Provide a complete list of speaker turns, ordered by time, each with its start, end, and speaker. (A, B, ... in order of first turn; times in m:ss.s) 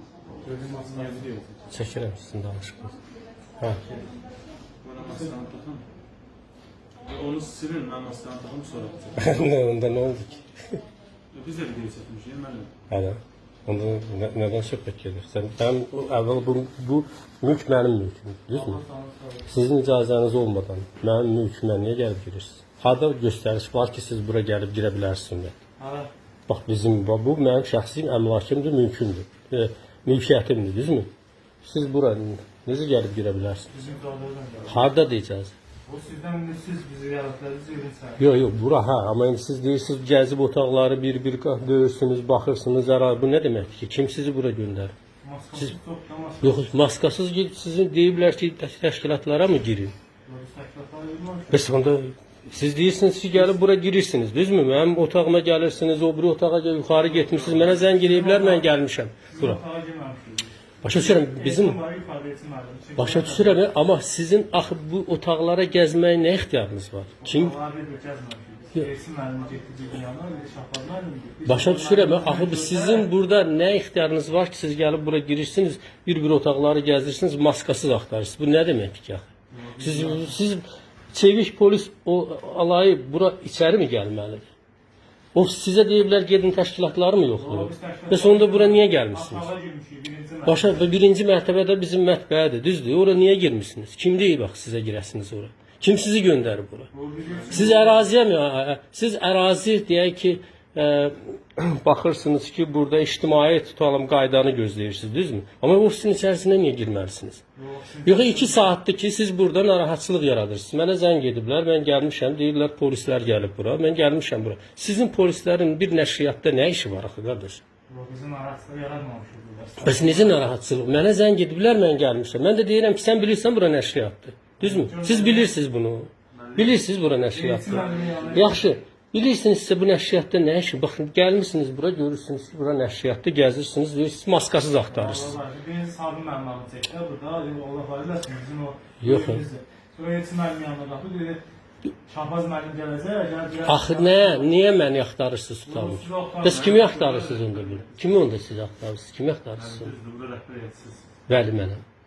0:00.4-0:01.3 A
0:00.5-0:01.6 B
0:01.7-0:03.0 C
0:03.8-0:04.2 A
0:04.8-0:05.8 B
0:05.0-0:05.3 A
0:07.0-0:09.4 B
0:09.2-0:10.8 C
0:11.3-0:12.7 B
0:12.9-0:18.8 C
0:18.5-0:19.5 A
0:19.5-0:25.5 C
0:25.8-0:26.1 A
0:26.5-0:31.1 C
0:31.6-0:33.7 C
0:33.7-0:34.8 A
0:34.7-0:35.5 C
0:35.8-0:38.2 A
0:38.2-0:44.9 C
0:45.2-0:46.7 A
0:46.4-0:49.9 C
0:50.2-0:51.6 A
0:51.5-0:59.6 C
0:57.2-0:58.8 A
0:59.3-1:03.6 A
1:00.8-1:01.8 C
1:03.0-1:07.5 C
1:07.2-1:13.1 A
1:11.4-1:19.3 C
1:19.5-1:20.4 A
1:19.8-1:24.5 C
1:25.3-1:29.5 C
1:27.3-1:30.7 A
1:30.4-1:36.9 C
1:36.9-1:38.0 A
1:37.3-1:37.7 B
1:37.5-1:47.4 C
1:47.6-1:48.7 A
1:48.0-1:57.6 C
1:57.9-2:00.4 A
1:59.8-2:15.3 C
2:04.6-2:05.5 A
2:06.3-2:06.8 B
2:07.3-2:08.6 A
2:07.6-2:08.5 B
2:14.9-2:21.4 A
2:19.0-2:19.4 C
2:22.1-2:24.5 A
2:23.6-2:29.9 C
2:25.6-2:27.6 A
2:26.5-2:28.1 B
2:29.6-2:31.1 B
2:31.3-2:31.8 C